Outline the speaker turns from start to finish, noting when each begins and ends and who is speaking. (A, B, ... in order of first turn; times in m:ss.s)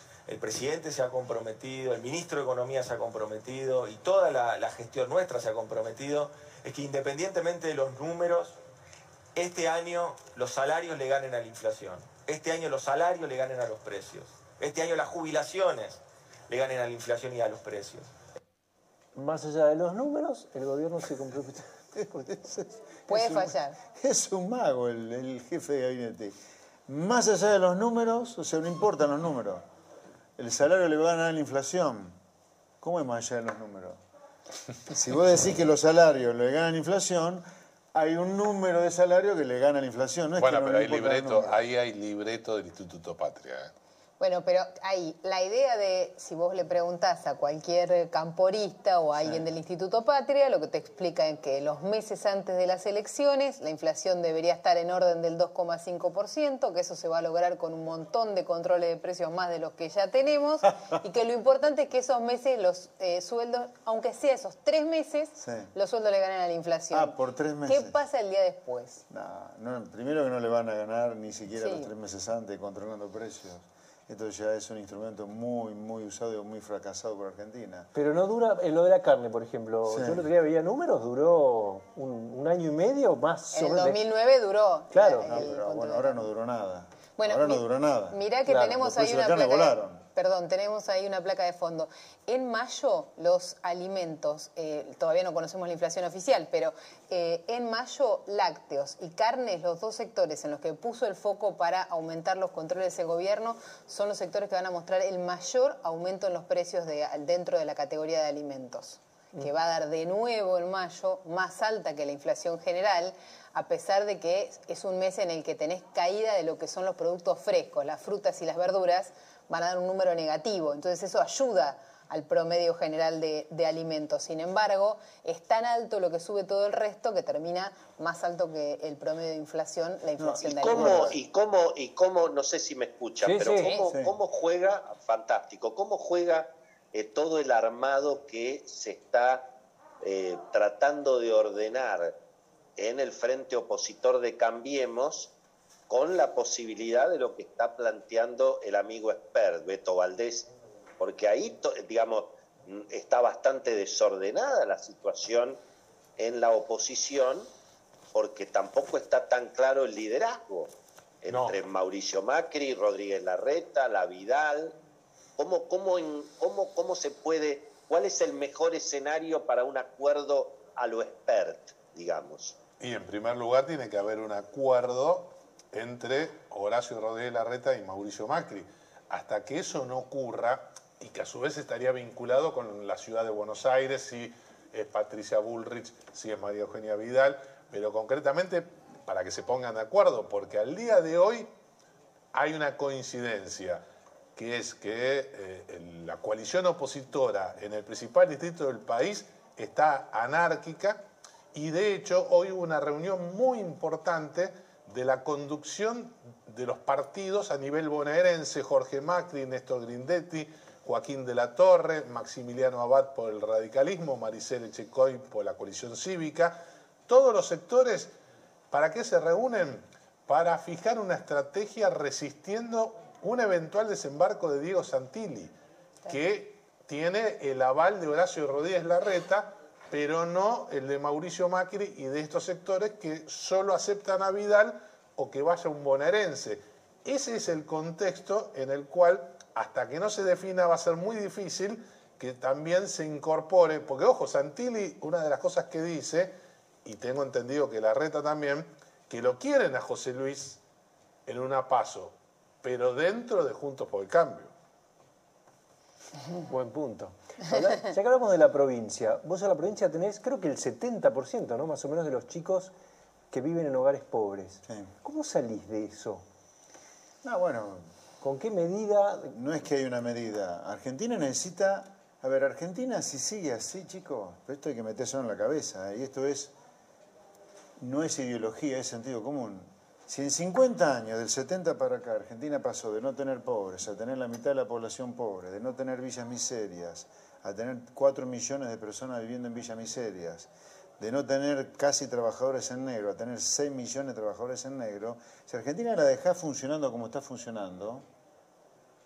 0:00.3-0:08.5 A
0:09.4-0:16.0 A
0:16.5-0:18.1 A
0:19.2-0:21.7 B
0:22.0-0:26.4 C
0:23.1-0:23.8 D
0:26.9-0:29.6 C
0:30.4-0:32.2 C
0:32.8-0:34.0 C
0:34.9-0:41.6 C
0:40.4-0:43.7 E
0:44.2-1:09.0 D
1:05.4-1:05.7 C
1:06.9-1:07.9 C
1:09.1-1:17.9 C
1:11.6-1:11.9 D
1:17.9-1:24.0 B
1:19.9-1:20.3 C
1:23.5-1:26.2 D
1:24.9-1:25.5 B
1:25.3-1:28.2 C
1:27.2-2:11.0 D
1:28.5-1:28.9 B
1:28.8-1:30.0 C
2:10.2-2:11.2 C
2:10.6-2:19.4 F
2:13.2-2:13.8 B
2:13.8-2:14.2 C
2:20.0-2:22.1 F
2:22.8-2:25.3 F
2:25.9-2:30.5 F
2:31.0-2:35.6 F
2:36.2-2:37.5 F
2:38.2-2:40.7 F
2:41.2-2:44.7 F
2:41.3-2:41.6 E
2:45.4-2:52.5 F
2:52.8-3:11.5 E
3:12.3-3:13.8 E
3:14.4-3:38.1 E
3:38.7-3:45.5 E
3:46.1-4:06.3 E
4:06.8-4:10.6 E
4:11.3-4:14.5 E
4:16.5-4:22.7 B
4:23.3-4:26.2 B
4:27.2-4:27.9 C
4:28.2-4:29.4 B
4:29.3-4:36.5 C
4:37.8-4:58.1 C